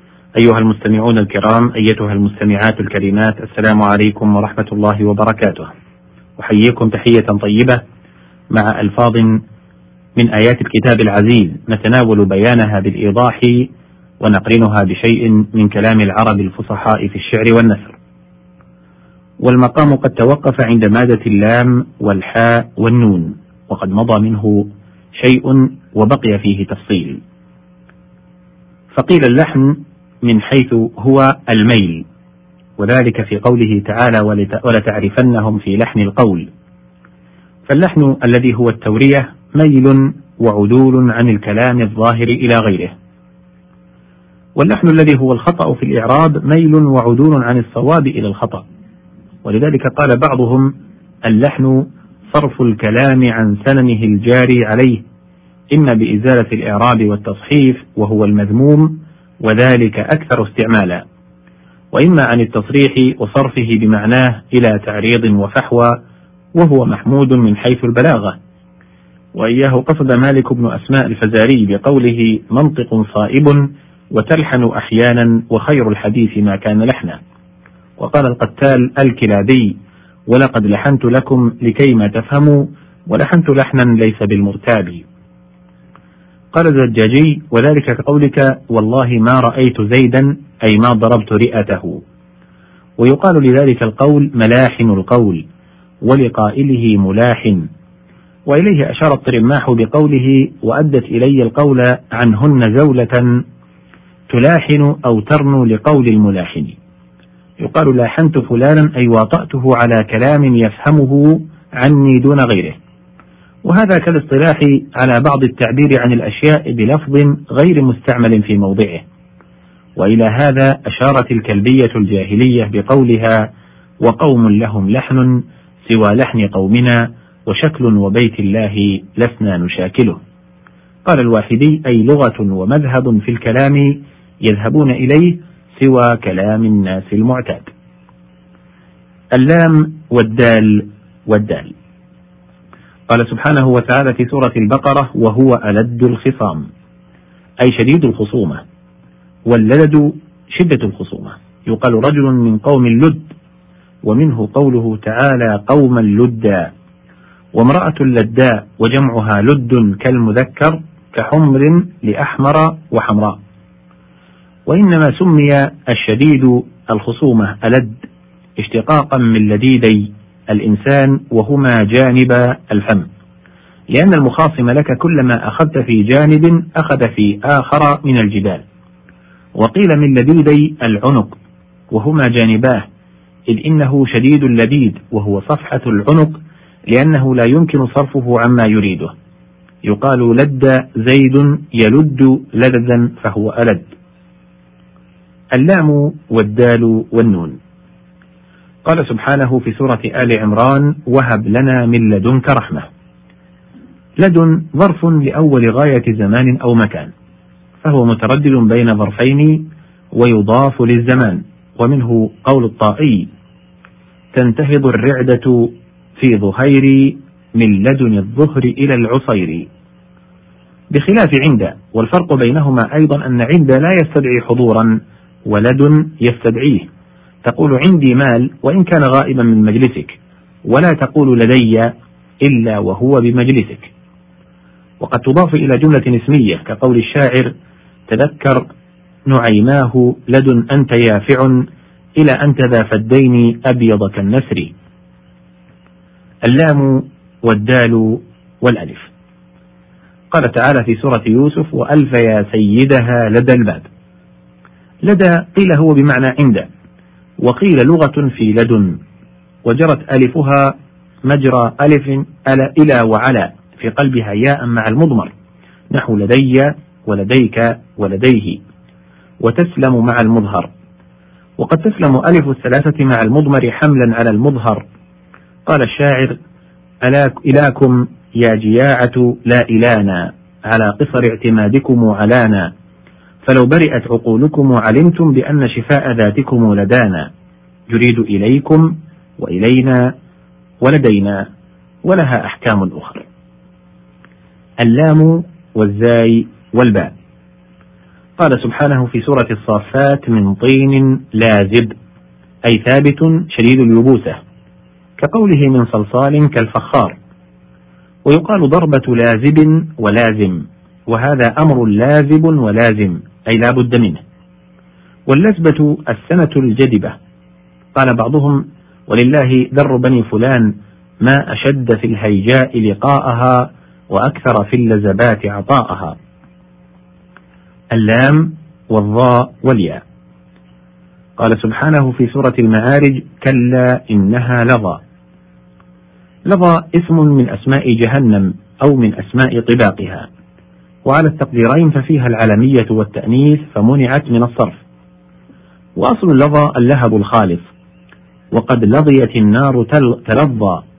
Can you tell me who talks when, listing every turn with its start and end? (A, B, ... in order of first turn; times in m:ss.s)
0:00.4-0:05.7 A
0:06.4-0:07.8 A
0:08.5-0:09.4 A
0:10.2-0:13.7 A
0:14.2-0:18.0 A
0:19.4-0:27.2 A
0:28.9-0:32.0 A
0:32.8-0:36.5 A
0:37.7-0:42.9 A
0:44.6-0:48.6 A
0:49.4-0:50.7 A
0:51.3-0:55.0 A
0:55.7-1:01.0 A
1:01.9-1:06.0 A
1:06.5-1:08.4 A
1:09.3-1:17.2 A
1:18.0-1:19.7 A
1:20.3-1:25.0 A
1:26.5-1:32.0 A
1:33.0-1:35.4 A
1:36.0-1:37.6 A
1:38.5-1:43.2 A
1:44.3-1:46.8 A
1:47.6-1:52.8 A
1:53.6-1:59.0 A
2:00.0-2:03.5 A
2:04.0-2:05.3 A
2:05.8-2:10.2 A
2:11.0-2:17.7 A
2:19.3-2:21.7 A
2:23.1-2:26.7 A
2:27.6-2:28.6 A
2:29.5-2:33.3 A
2:34.0-2:36.7 A
2:37.5-2:43.4 A
2:44.7-2:48.0 A
2:48.6-2:53.1 A
2:53.9-2:58.6 A
2:59.6-3:01.3 A
3:01.9-3:02.8 A
3:03.5-3:06.4 A
3:06.9-3:09.1 A
3:09.8-3:13.8 A
3:15.5-3:17.6 A
3:18.8-3:22.9 A
3:24.2-3:27.1 A
3:27.8-3:33.3 A
3:34.3-3:39.7 A
3:40.9-3:44.9 A
3:45.5-3:46.9 A
3:47.4-3:50.1 A
3:50.7-3:51.9 A
3:52.4-3:53.9 A
3:55.0-3:57.5 A
3:58.1-3:58.6 A
3:59.3-4:01.6 A
4:02.2-4:04.7 A
4:06.4-4:09.1 A
4:10.3-4:13.9 A
4:15.0-4:16.7 A
4:17.4-4:19.0 A
4:19.6-4:20.7 A
4:21.3-4:25.3 A
4:25.9-4:28.6 A
4:29.4-4:30.7 A
4:31.6-4:34.8 A
4:35.6-4:36.4 A
4:37.0-4:42.7 A
4:43.4-4:47.3 A
4:47.9-4:50.1 A
4:50.8-4:51.4 A
4:52.0-4:53.2 A
4:54.8-4:57.1 A
4:58.4-5:01.9 A
5:02.6-5:04.4 A
5:05.2-5:07.2 A
5:08.2-5:14.2 A
5:15.3-5:17.1 A
5:17.9-5:20.7 A
5:21.2-5:26.1 A
5:27.9-5:30.0 A
5:31.4-5:35.0 A
5:36.5-5:40.3 A
5:41.0-5:44.8 A
5:46.0-5:47.6 A
5:48.5-5:50.8 A